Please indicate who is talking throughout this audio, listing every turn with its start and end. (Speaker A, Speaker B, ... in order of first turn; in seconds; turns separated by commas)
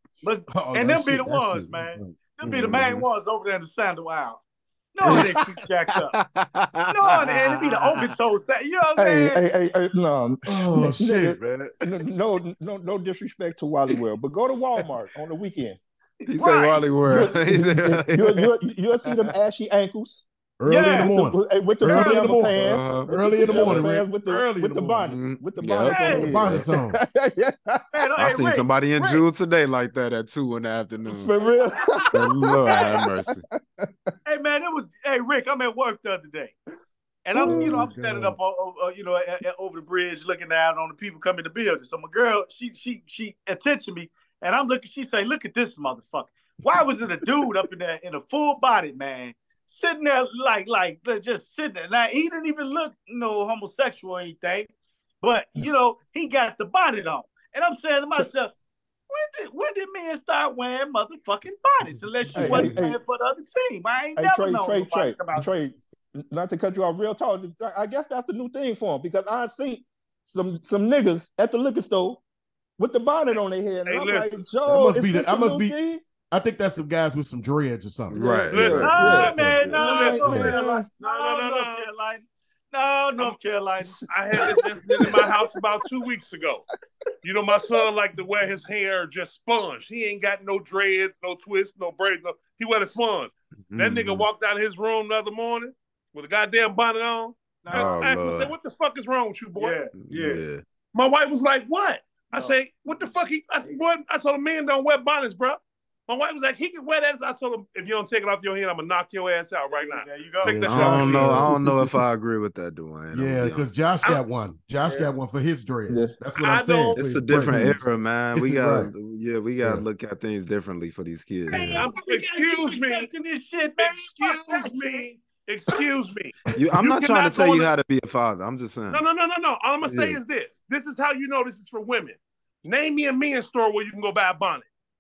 Speaker A: 0.2-4.4, Speaker B: 0.5-2.8, Speaker C: 2.4-3.0, Speaker A: 4.9-6.2, Speaker B: 5.0-5.3, Speaker C: 6.1-8.0, Speaker A: 6.9-9.4, Speaker D: 9.0-15.8, Speaker B: 10.5-11.8, Speaker A: 16.2-16.9, Speaker C: 16.3-18.5, Speaker D: 17.1-20.3, Speaker C: 19.0-19.3, Speaker B: 20.6-25.2, Speaker A: 20.7-21.1, Speaker D: 20.9-27.9, Speaker A: 21.8-22.4, Speaker C: 22.6-23.9, Speaker C: 25.1-26.7, Speaker A: 25.9-26.3, Speaker B: 25.9-27.0, Speaker A: 27.9-29.2, Speaker C: 28.2-31.4, Speaker D: 31.1-33.9, Speaker A: 31.6-32.1, Speaker C: 32.1-33.4, Speaker A: 32.7-33.0, Speaker A: 34.3-36.5, Speaker A: 37.2-54.7, Speaker D: 37.4-37.9, Speaker B: 37.5-38.4, Speaker A: 55.2-58.5, Speaker A: 59.1-65.5, Speaker B: 62.3-62.8, Speaker D: 62.4-63.0, Speaker D: 64.2-72.2, Speaker D: 72.8-76.0, Speaker E: 73.9-74.4, Speaker B: 74.7-75.8, Speaker B: 76.3-80.6, Speaker C: 78.1-78.9, Speaker D: 78.1-80.9, Speaker E: 78.5-81.9, Speaker A: 78.8-84.1, Speaker D: 83.8-85.8, Speaker E: 84.1-86.7, Speaker E: 87.2-99.8, Speaker C: 93.7-94.3, Speaker A: 97.6-98.0, Speaker C: 97.7-98.5, Speaker A: 99.6-100.4, Speaker C: 100.0-100.6, Speaker E: 100.9-111.5, Speaker A: 102.3-103.1, Speaker A: 109.7-110.6, Speaker B: 110.4-111.6, Speaker C: 110.7-113.7, Speaker D: 111.4-112.0, Speaker B: 113.1-117.8, Speaker D: 115.9-116.2, Speaker E: 116.4-117.0, Speaker C: 117.0-121.7, Speaker D: 117.5-117.8, Speaker B: 118.3-118.9, Speaker B: 121.5-121.9, Speaker A: 121.5-125.0, Speaker E: 121.6-123.1, Speaker E: 123.8-127.7, Speaker C: 126.5-129.0, Speaker E: 128.9-134.7, Speaker C: 129.9-130.2